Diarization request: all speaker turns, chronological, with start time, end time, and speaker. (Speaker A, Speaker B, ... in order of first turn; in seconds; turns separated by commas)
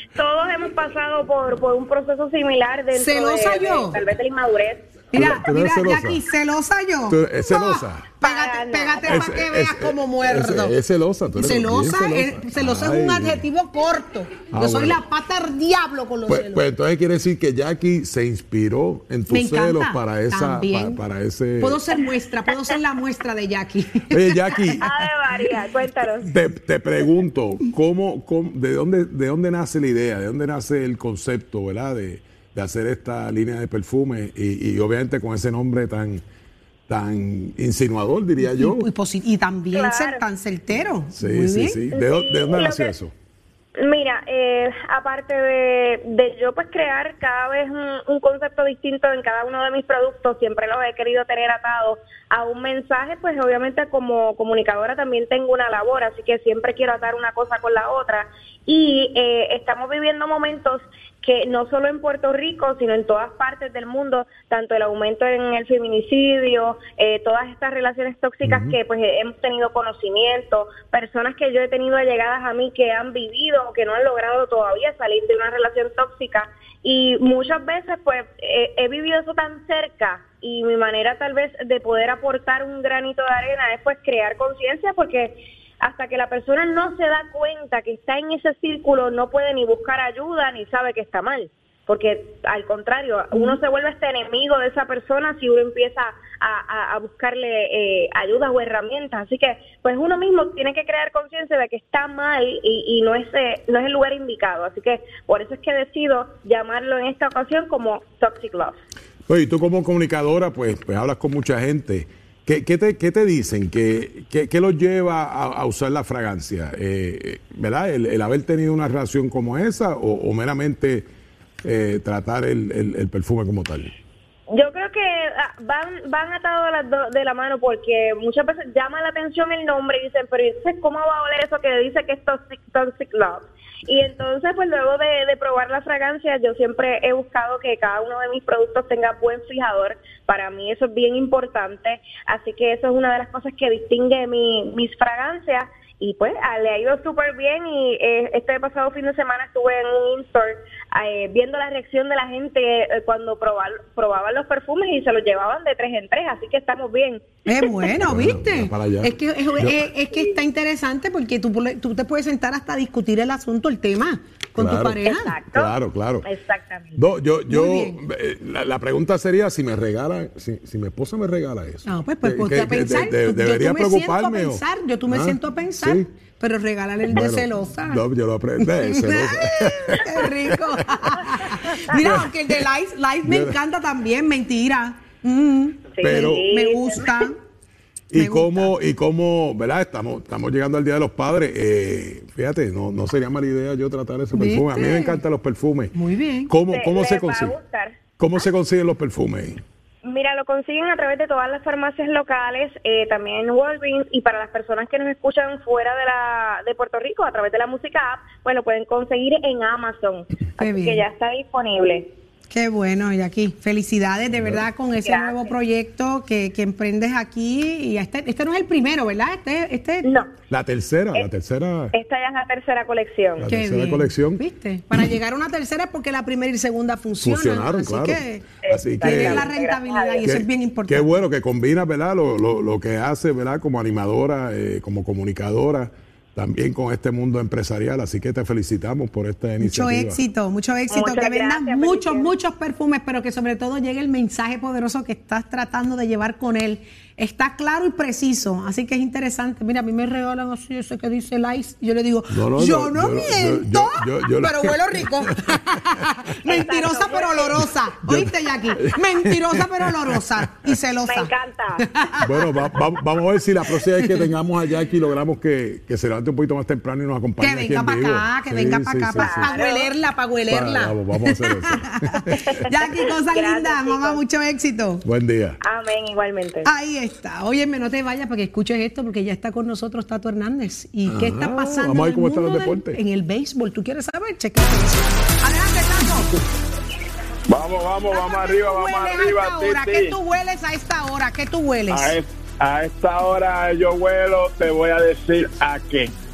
Speaker A: 0.2-4.9, Speaker B: 2.9-4.0, Speaker B: 5.1-10.8, Speaker C: 5.1-6.2, Speaker C: 7.1-8.2, Speaker A: 8.2-9.3, Speaker C: 9.1-13.5, Speaker B: 11.4-16.7, Speaker C: 14.5-15.0, Speaker C: 16.3-21.8, Speaker B: 19.3-21.0, Speaker B: 21.6-24.4, Speaker C: 24.1-36.2, Speaker A: 24.8-26.4, Speaker C: 36.9-38.9, Speaker B: 38.4-41.8, Speaker A: 39.7-40.2, Speaker C: 41.1-43.1, Speaker A: 41.9-43.0, Speaker A: 43.8-108.8, Speaker C: 68.4-68.8, Speaker C: 109.3-121.1, Speaker C: 121.6-123.9, Speaker A: 124.5-157.2, Speaker B: 157.5-165.3, Speaker C: 158.0-159.9, Speaker A: 160.1-160.4, Speaker C: 164.6-166.3, Speaker A: 165.1-167.1, Speaker C: 167.0-176.1, Speaker B: 167.5-168.0, Speaker B: 171.9-178.1, Speaker C: 177.1-182.7, Speaker B: 178.6-187.4, Speaker C: 183.2-183.6, Speaker A: 185.9-187.3, Speaker C: 186.0-186.5, Speaker C: 188.1-195.9, Speaker B: 188.2-188.7, Speaker B: 194.3-195.2, Speaker B: 195.9-196.5, Speaker C: 196.5-197.6, Speaker A: 196.6-198.0, Speaker C: 198.2-199.6, Speaker A: 200.0-212.1, Speaker B: 210.6-211.0, Speaker B: 212.5-220.1, Speaker C: 214.3-214.6, Speaker A: 215.0-215.6, Speaker A: 220.0-220.3, Speaker C: 220.5-221.9, Speaker A: 221.9-223.5, Speaker C: 223.4-224.4, Speaker B: 223.5-228.4, Speaker C: 227.2-229.5, Speaker A: 228.6-230.3, Speaker B: 229.0-231.2, Speaker C: 230.2-240.2, Speaker B: 239.6-262.8, Speaker A: 240.9-242.3, Speaker C: 252.3-256.1, Speaker A: 256.5-257.6, Speaker C: 258.0-260.8, Speaker A: 261.1-261.9, Speaker C: 262.2-269.6, Speaker B: 263.8-264.3, Speaker B: 267.4-275.1, Speaker A: 269.2-269.9, Speaker C: 270.5-272.6, Speaker A: 272.4-274.2, Speaker C: 275.1-275.6, Speaker A: 275.6-276.7, Speaker B: 276.7-286.3, Speaker C: 281.1-283.0, Speaker D: 287.5-290.1, Speaker B: 288.1-292.2, Speaker D: 291.9-296.1